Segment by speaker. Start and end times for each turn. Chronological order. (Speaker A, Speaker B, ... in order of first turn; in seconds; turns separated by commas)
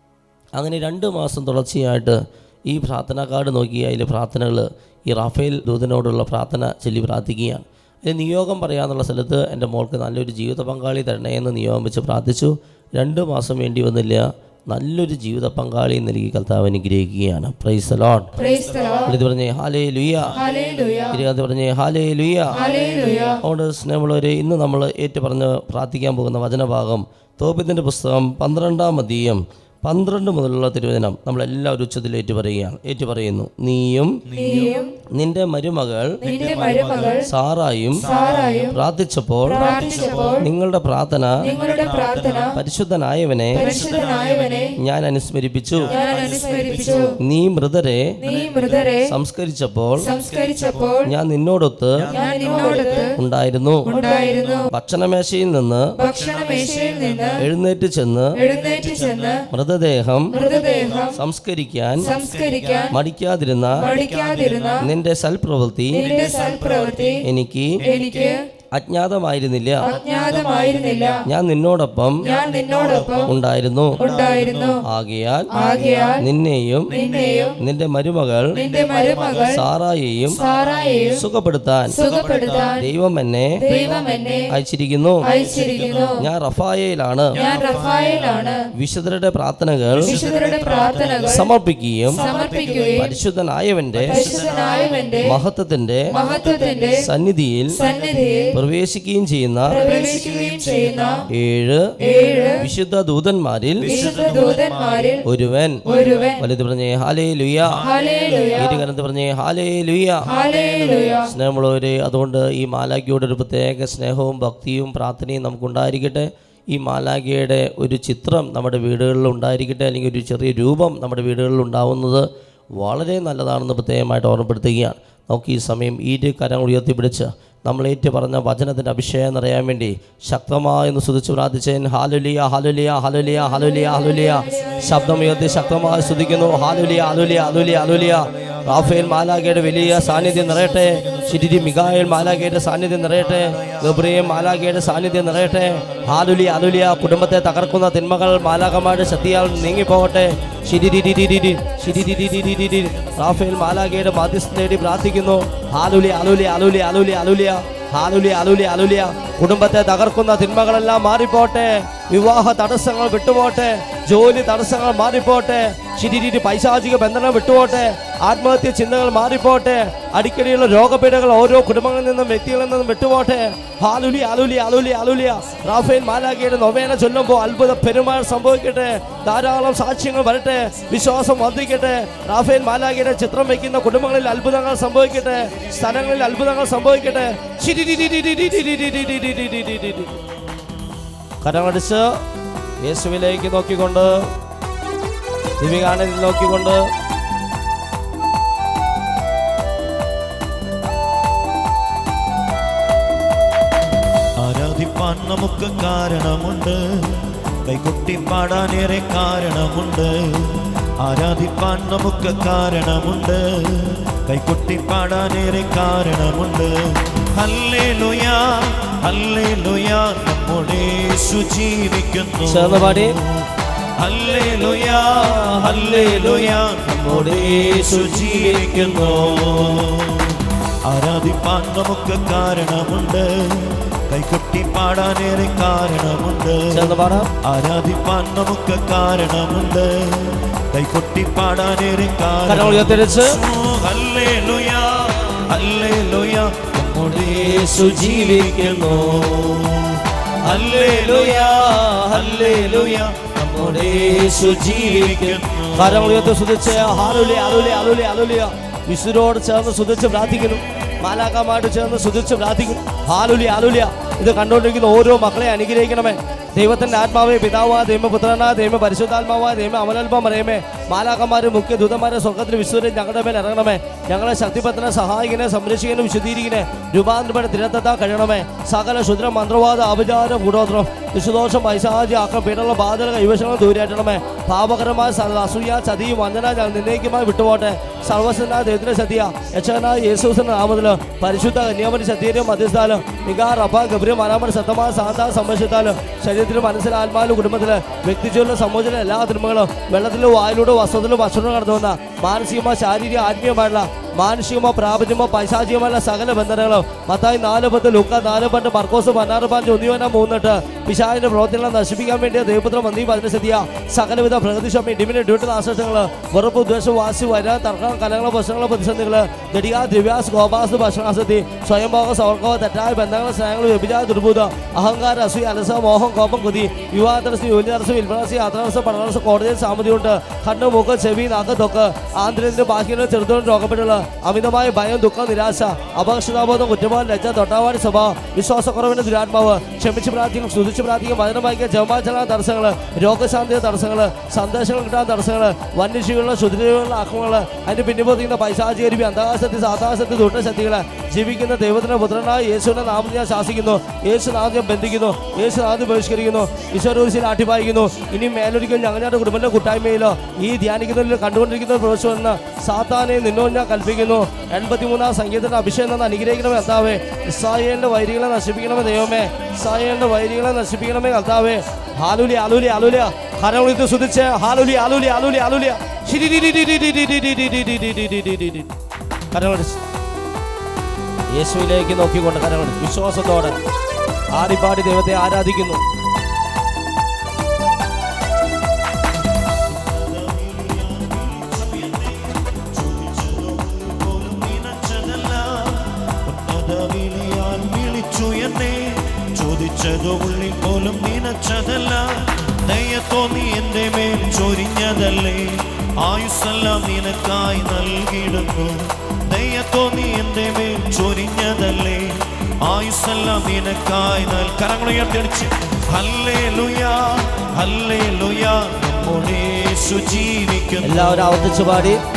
Speaker A: 0.5-18.3, Speaker B: 18.4-19.2, Speaker A: 19.0-20.4, Speaker B: 20.3-21.2, Speaker A: 21.1-22.6, Speaker B: 22.5-23.4, Speaker A: 23.4-34.2, Speaker B: 34.3-34.9, Speaker A: 35.1-36.2, Speaker B: 36.2-37.3, Speaker A: 37.2-38.1, Speaker B: 38.0-38.8, Speaker A: 38.7-41.4, Speaker B: 39.4-40.5, Speaker B: 41.4-42.6, Speaker A: 42.5-43.7, Speaker B: 43.5-44.8, Speaker A: 44.8-45.9, Speaker B: 45.9-47.2, Speaker A: 47.2-48.1, Speaker B: 48.2-49.1, Speaker A: 49.1-50.1, Speaker B: 50.0-51.1, Speaker A: 51.0-52.1, Speaker B: 52.1-53.1, Speaker A: 53.1-53.9, Speaker B: 53.9-54.7, Speaker A: 54.7-55.9, Speaker B: 56.0-57.4, Speaker A: 57.4-58.3, Speaker B: 58.4-59.5, Speaker A: 59.5-60.4, Speaker B: 60.3-61.2, Speaker A: 61.1-62.1, Speaker B: 62.0-63.0, Speaker A: 62.9-63.9, Speaker B: 63.8-64.9, Speaker A: 64.8-66.0, Speaker B: 65.9-67.2, Speaker A: 67.2-67.8, Speaker B: 67.8-68.5, Speaker A: 68.7-69.9, Speaker B: 69.8-71.2, Speaker A: 71.2-72.2, Speaker B: 72.2-73.3, Speaker A: 73.2-74.0, Speaker B: 74.0-74.8, Speaker A: 74.8-75.6, Speaker B: 75.5-76.3, Speaker A: 76.1-76.9, Speaker B: 76.9-77.6, Speaker A: 77.6-78.6, Speaker B: 78.5-79.6, Speaker C: 78.8-79.4, Speaker A: 79.4-80.4, Speaker B: 80.3-81.2, Speaker A: 81.1-82.0, Speaker B: 81.9-82.8, Speaker A: 82.8-83.6, Speaker B: 83.6-84.5, Speaker A: 84.5-85.3, Speaker B: 85.2-86.3, Speaker A: 86.2-87.3, Speaker B: 87.3-88.6, Speaker A: 88.7-90.2, Speaker B: 90.0-91.5, Speaker A: 91.2-92.2, Speaker B: 92.1-93.1, Speaker A: 93.0-94.4, Speaker B: 94.1-95.4, Speaker A: 95.2-96.1, Speaker B: 96.1-97.1, Speaker A: 97.0-97.8, Speaker B: 97.7-98.6, Speaker A: 98.5-99.8, Speaker B: 99.7-101.2, Speaker A: 101.3-101.8, Speaker B: 102.0-102.7, Speaker A: 102.5-103.9, Speaker B: 103.8-105.2, Speaker C: 103.9-105.1, Speaker A: 105.2-105.8, Speaker B: 105.8-106.4, Speaker A: 106.4-107.8, Speaker C: 107.7-108.5, Speaker B: 107.8-108.8, Speaker A: 108.5-110.3, Speaker B: 110.2-111.3, Speaker A: 111.2-190.1, Speaker B: 133.6-135.7, Speaker A: 191.4-192.1, Speaker A: 192.8-194.3, Speaker A: 195.6-196.9, Speaker C: 204.4-246.7, Speaker A: 222.4-223.2, Speaker A: 225.2-229.5, Speaker A: 236.7-237.3, Speaker A: 242.4-243.4, Speaker A: 246.7-249.6, Speaker C: 247.2-257.9, Speaker A: 250.5-378.7, Speaker A: 379.3-379.8, Speaker A: 381.3-383.6, Speaker A: 384.3-385.8, Speaker C: 389.7-421.9, Speaker A: 420.8-422.0